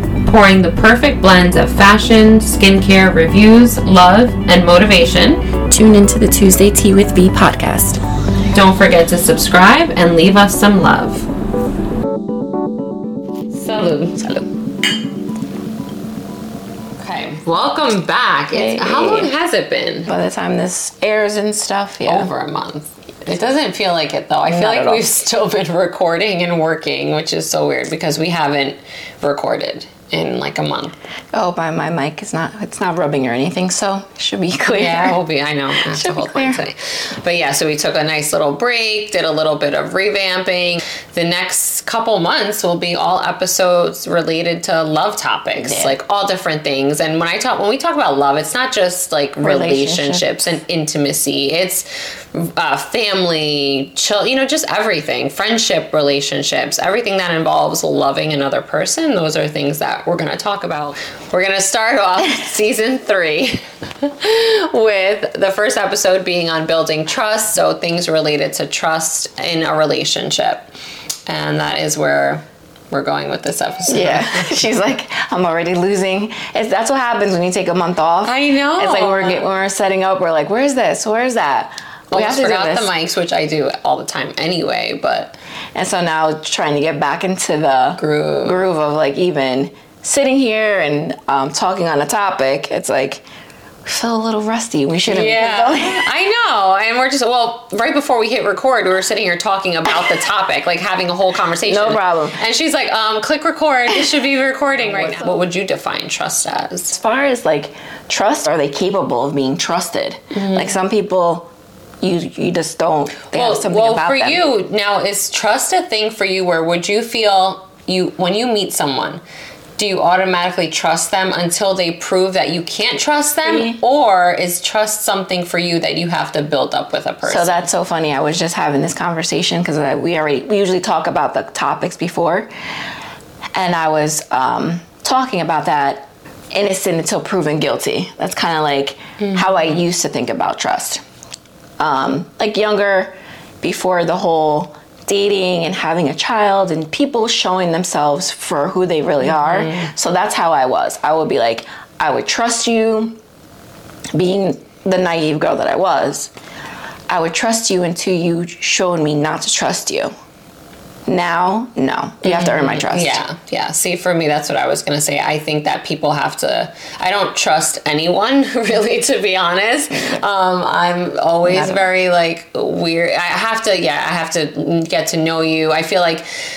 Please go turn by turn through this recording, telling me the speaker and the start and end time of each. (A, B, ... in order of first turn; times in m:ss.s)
0:00.2-0:05.5 A
0:05.7-0:08.0 B
0:08.5-0:11.3 A
0:13.5-0:14.5 A
0:17.0-0:20.1 A
0:18.5-0:19.3 B
0:20.1-0:22.3 B
0:22.0-0:30.9 A
0:24.5-0:25.0 B
0:31.3-0:35.2 B
0:34.7-1:10.7 A
0:35.7-0:36.6 B
0:45.5-0:46.0 B
0:49.4-0:50.3 B
1:11.3-1:14.6 A
1:13.9-1:22.9 B
1:18.2-1:19.4 A
1:22.1-1:25.4 A
1:25.7-1:33.2 B
1:28.0-1:28.6 A
1:33.8-1:36.1 B
1:35.1-1:46.9 A
1:41.6-1:42.4 B
1:44.9-1:45.4 B
1:46.9-1:51.5 B
1:50.3-1:50.7 A
1:52.0-1:54.4 B
1:53.3-1:59.2 A
1:59.8-2:07.7 A
2:03.4-2:03.8 B
2:07.2-2:12.5 B
2:13.5-2:21.0 B
2:19.2-2:19.6 A
2:21.8-2:33.2 B
2:29.2-2:29.9 A
2:34.1-2:36.3 B
2:37.1-2:40.1 B
2:41.0-2:43.2 B
2:42.2-2:56.2 A
2:49.9-2:50.2 B
2:51.4-2:51.8 B